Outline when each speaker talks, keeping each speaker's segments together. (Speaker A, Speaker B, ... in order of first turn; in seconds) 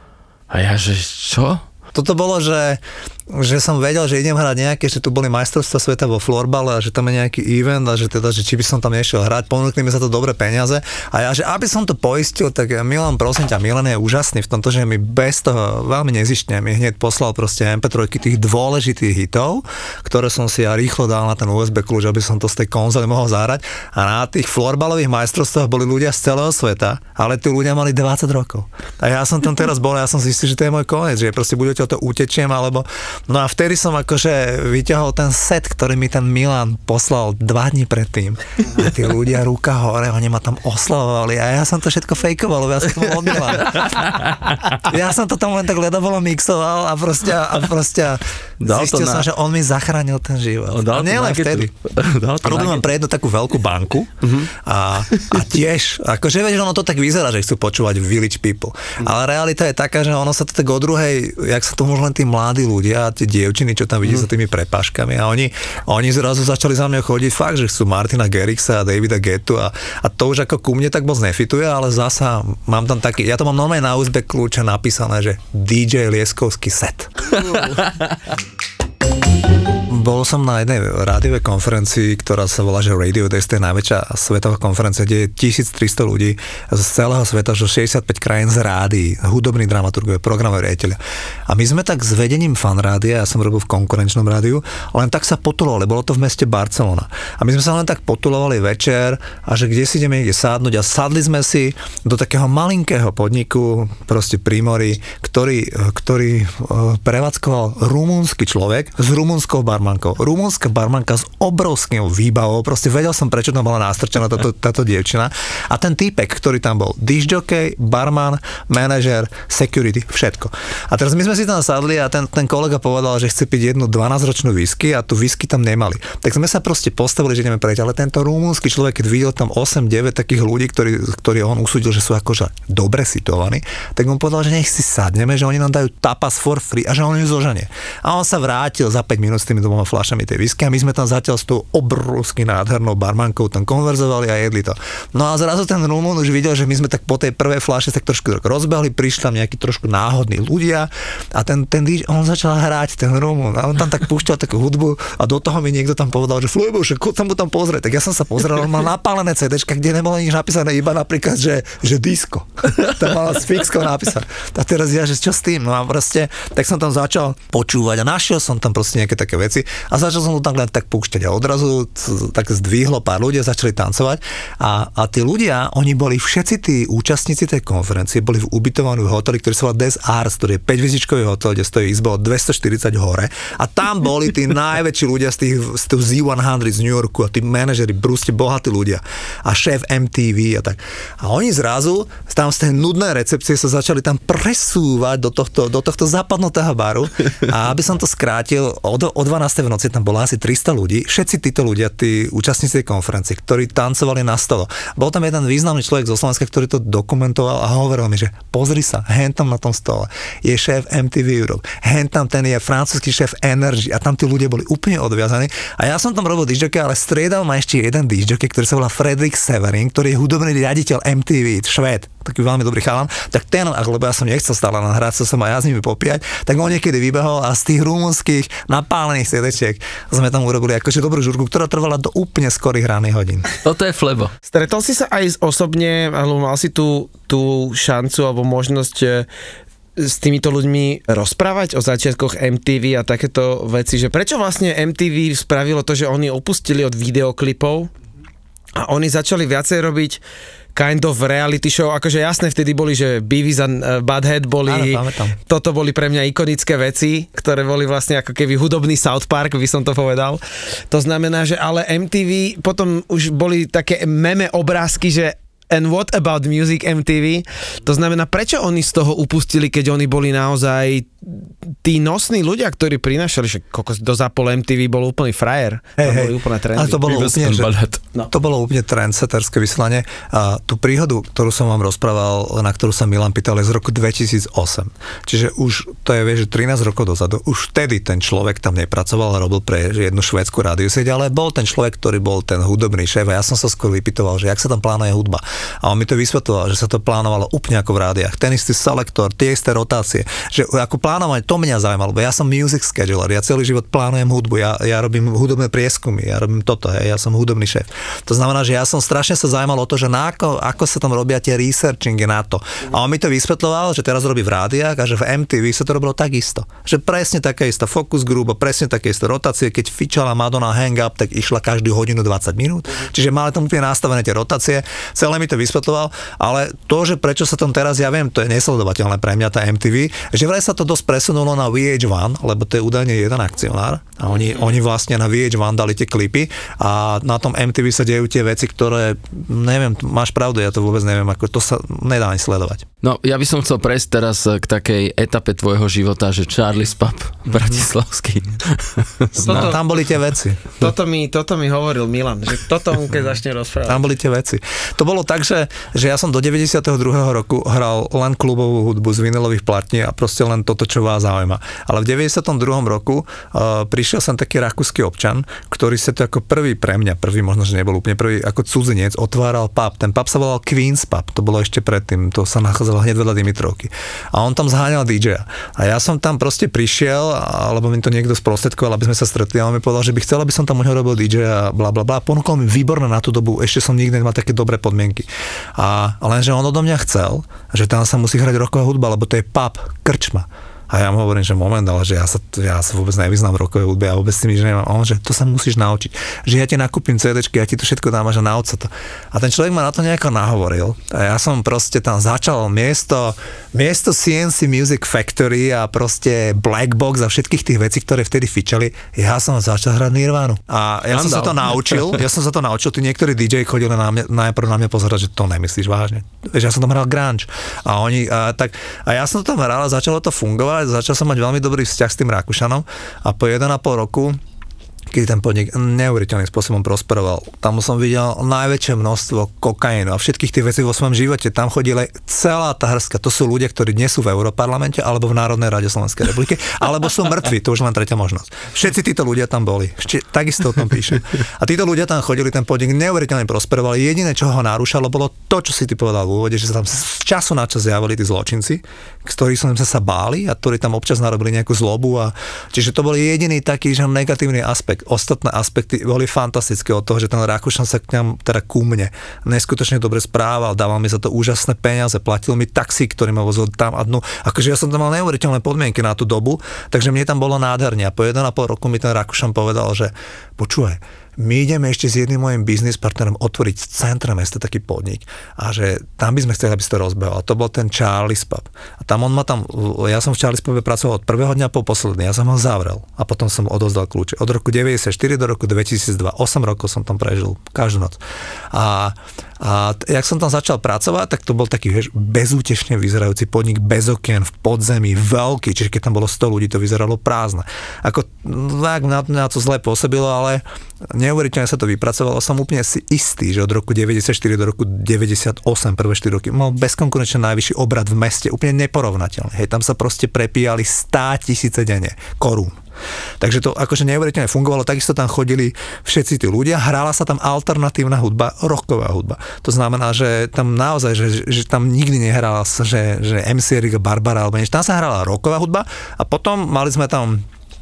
Speaker A: 0.5-1.6, 43.6-44.7, 48.6-49.3, 50.7-52.9, 77.3-78.0, 233.6-234.3, 277.1-278.0, 343.0-349.6, 411.1-412.2
Speaker B: 1.9-44.2, 44.8-51.7, 52.4-77.4, 79.9-233.5, 254.7-255.3, 276.0-277.7, 278.3-342.9, 347.5-347.8, 349.4-350.7, 353.9-424.4, 425.1-488.2, 488.7-512.8, 513.4-527.5
Speaker C: 54.2-54.5, 234.5-239.3, 240.0-247.9, 248.8-250.2, 250.8-277.1, 349.4-349.8, 350.8-354.1